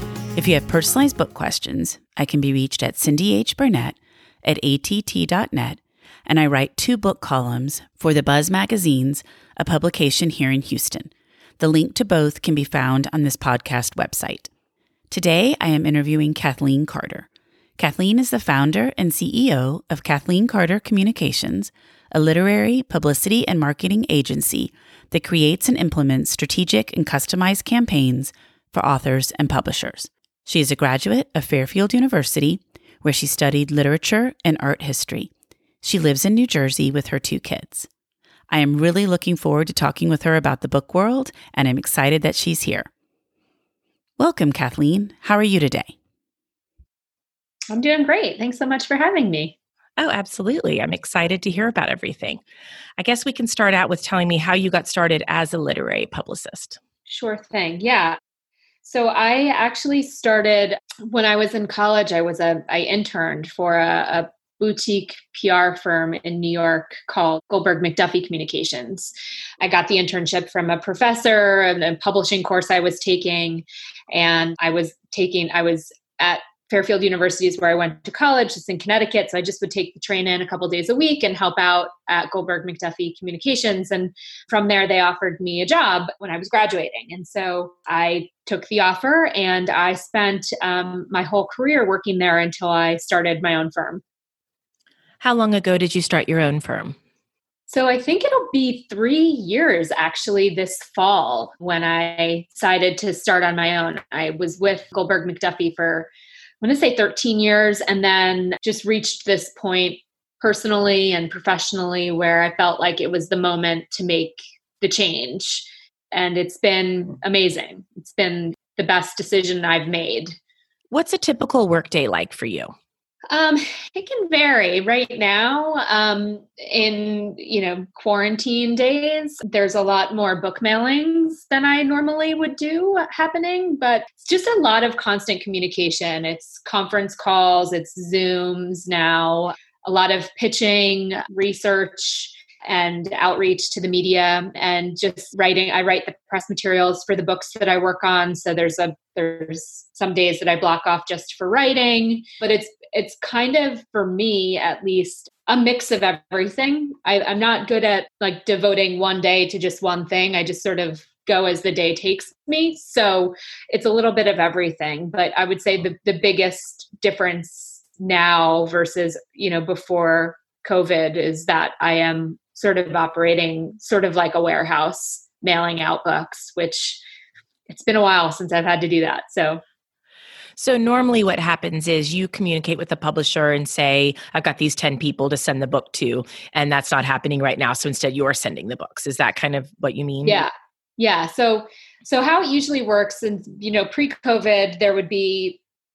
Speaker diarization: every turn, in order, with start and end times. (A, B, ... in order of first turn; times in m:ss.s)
0:00.4-0:14.5 A
0:15.1-0:35.3 A
0:35.8-0:37.9 A
0:38.5-0:42.9 A
0:44.2-0:46.0 A
0:47.7-0:49.5 B
0:50.0-0:52.4 C
0:53.0-0:56.8 C
0:57.1-0:58.2 B
0:58.8-1:34.0 B
1:35.2-1:37.0 C
1:37.7-1:46.1 B
1:46.6-2:00.4 B
2:00.9-2:02.7 C
2:03.3-2:57.0 B
2:57.7-2:59.6 B
3:00.6-3:10.4 C
3:10.2-3:15.6 B